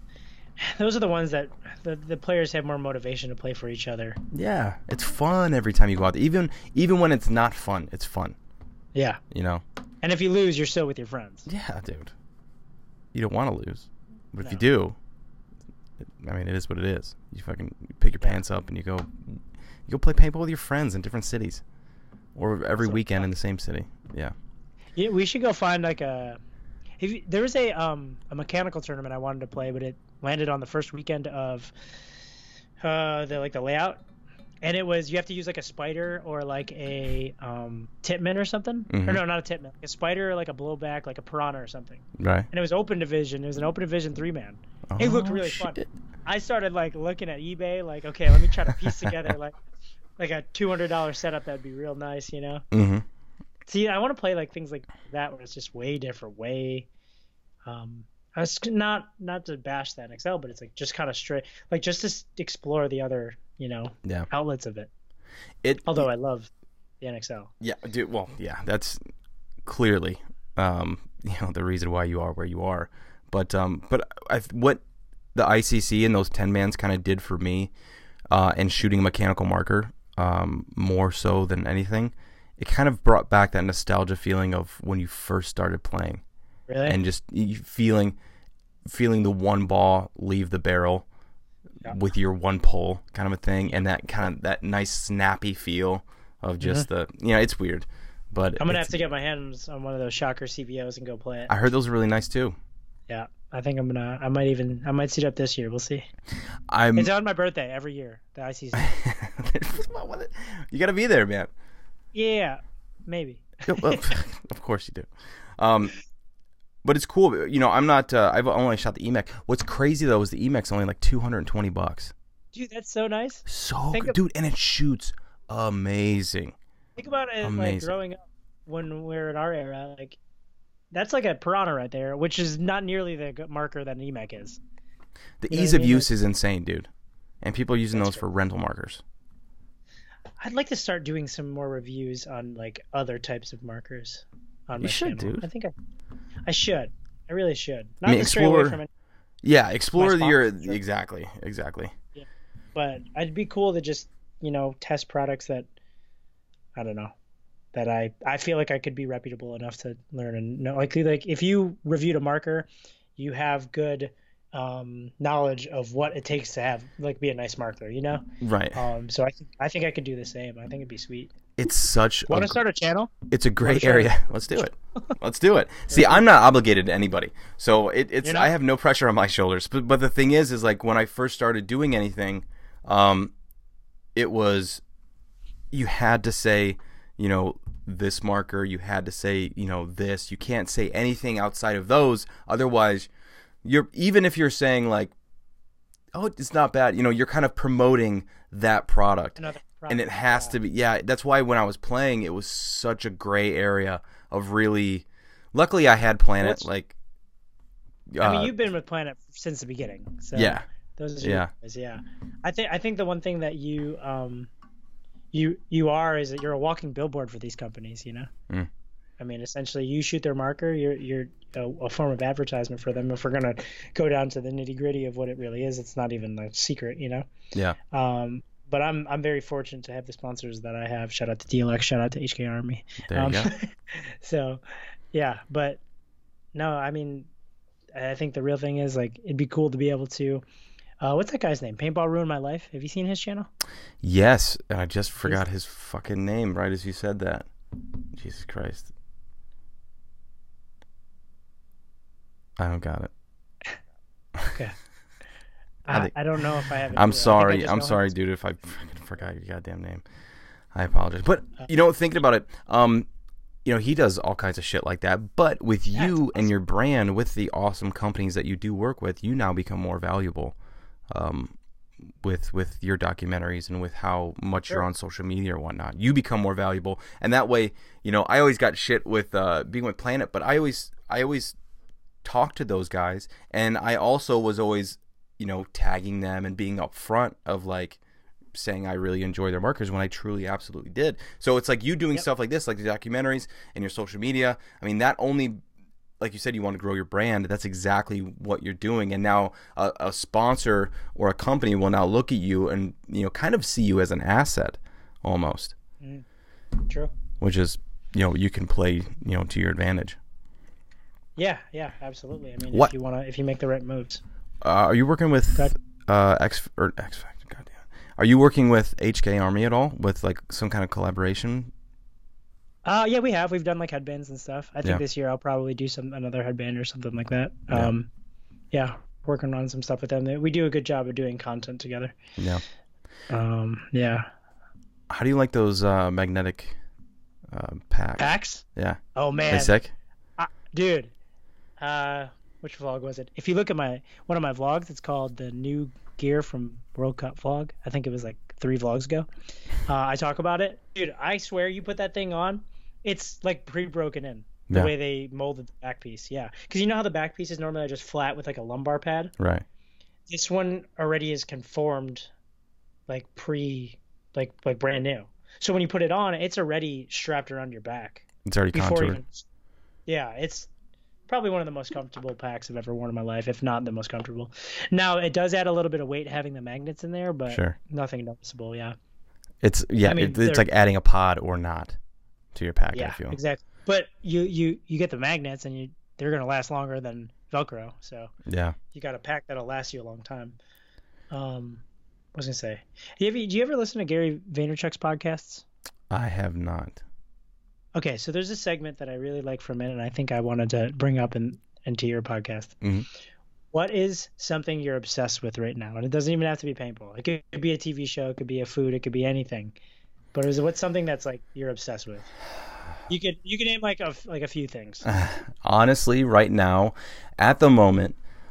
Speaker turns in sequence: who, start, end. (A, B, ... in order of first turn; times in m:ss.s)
0:00.6-0:04.2 A
0:04.3-0:08.4 B
0:08.9-0:09.2 A
0:09.3-0:09.6 B
0:10.0-0:11.5 A
0:11.5-0:12.1 B
0:13.1-0:15.0 B
0:16.2-0:21.6 B
0:22.4-0:24.3 B
0:22.8-0:23.3 A
0:25.0-0:26.4 A
0:27.0-0:31.7 A
0:32.8-0:34.0 A
0:34.6-0:49.6 A
0:38.9-0:39.2 B
0:42.2-0:42.5 B
0:44.9-0:45.9 B
0:50.2-0:52.6 A
0:52.7-0:53.0 B
0:53.7-0:56.9 A
0:57.6-1:04.9 A
1:05.6-1:06.1 B
1:05.9-1:06.5 A
1:07.0-1:07.5 A
1:07.6-1:09.0 B
1:09.6-1:14.8 B
1:15.4-1:17.7 B
1:18.3-1:26.2 B
1:26.7-1:27.0 A
1:26.9-1:28.2 B
1:28.9-1:31.1 B
1:31.9-1:38.9 B
1:36.6-1:36.9 A
1:38.6-1:41.5 A
1:41.5-1:42.6 B
1:43.1-1:46.1 A
1:46.7-1:47.1 B
1:47.0-1:48.9 A
1:48.7-1:51.5 B
1:52.1-1:54.1 A
1:53.7-1:56.0 B
1:56.8-2:02.1 B
2:02.5-2:04.2 A
2:03.5-2:06.6 B
2:07.0-2:10.2 A
2:07.4-2:07.9 B
2:10.9-2:14.6 A
2:15.4-2:16.9 B
2:15.5-2:16.1 A
2:17.4-2:19.0 B
2:18.0-2:18.2 A
2:20.4-2:25.7 A
2:24.8-2:25.5 B
2:26.5-2:28.9 A
2:28.1-2:28.8 B
2:29.4-2:31.9 B
2:30.0-2:30.8 A
2:32.2-2:35.7 A
2:36.8-2:37.1 A
2:37.7-2:51.3 A
2:48.4-2:48.8 B
2:51.6-2:52.6 B
2:52.3-2:54.7 A
2:53.3-3:03.3 B
2:55.9-2:56.2 A
2:58.2-2:58.5 A
3:04.2-3:04.8 B
3:05.7-3:13.1 B
3:13.6-3:15.1 B
3:16.1-3:27.0 B
3:19.4-3:20.6 A
3:28.1-3:28.6 B
3:28.2-3:34.5 A
3:30.4-3:30.6 B
3:31.2-3:31.5 B
3:35.3-3:38.3 A
3:39.2-3:47.3 A
3:47.9-3:55.8 A
3:53.0-3:53.5 B
3:56.5-3:57.3 A
3:57.9-4:00.4 A
4:01.0-4:03.5 A
4:04.0-4:07.5 B
4:08.1-4:08.9 B
4:12.6-4:13.1 B
4:15.9-4:18.1 A
4:15.9-4:16.2 B
4:16.9-4:20.0 B
4:20.7-4:23.1 B
4:23.6-4:30.6 B
4:31.1-4:31.6 B
4:32.2-4:41.6 B
4:42.2-4:48.0 B
4:48.6-4:55.6 B
4:56.2-5:05.8 B
5:06.0-5:06.3 A
5:07.4-5:10.2 B
5:11.4-5:14.2 A
5:14.6-5:21.7 B
5:22.8-5:28.1 A
5:28.7-5:32.2 A
5:32.4-5:32.6 B
5:33.3-5:34.3 A
5:35.1-5:36.8 B
5:37.5-5:39.9 B
5:38.2-5:39.7 A
5:40.4-5:41.1 A
5:41.8-5:49.3 A
5:49.8-5:59.3 A
5:59.4-5:59.6 B
6:00.3-6:02.3 A
6:03.1-6:09.4 A
6:08.4-6:09.2 B
6:10.1-6:10.7 A
6:11.3-6:19.0 A
6:17.5-6:17.8 B
6:19.6-6:22.0 B
6:20.0-6:20.6 A
6:22.6-6:23.4 B
6:22.9-6:28.3 A
6:28.5-6:28.8 B
6:28.9-6:30.6 A
6:31.3-6:31.8 A
6:32.3-6:35.6 A
6:36.1-6:37.0 B
6:38.0-6:42.8 A
6:42.8-6:43.1 B
6:43.7-6:49.8 A
6:50.3-6:52.3 A
6:53.1-6:55.1 A
6:55.0-6:58.2 B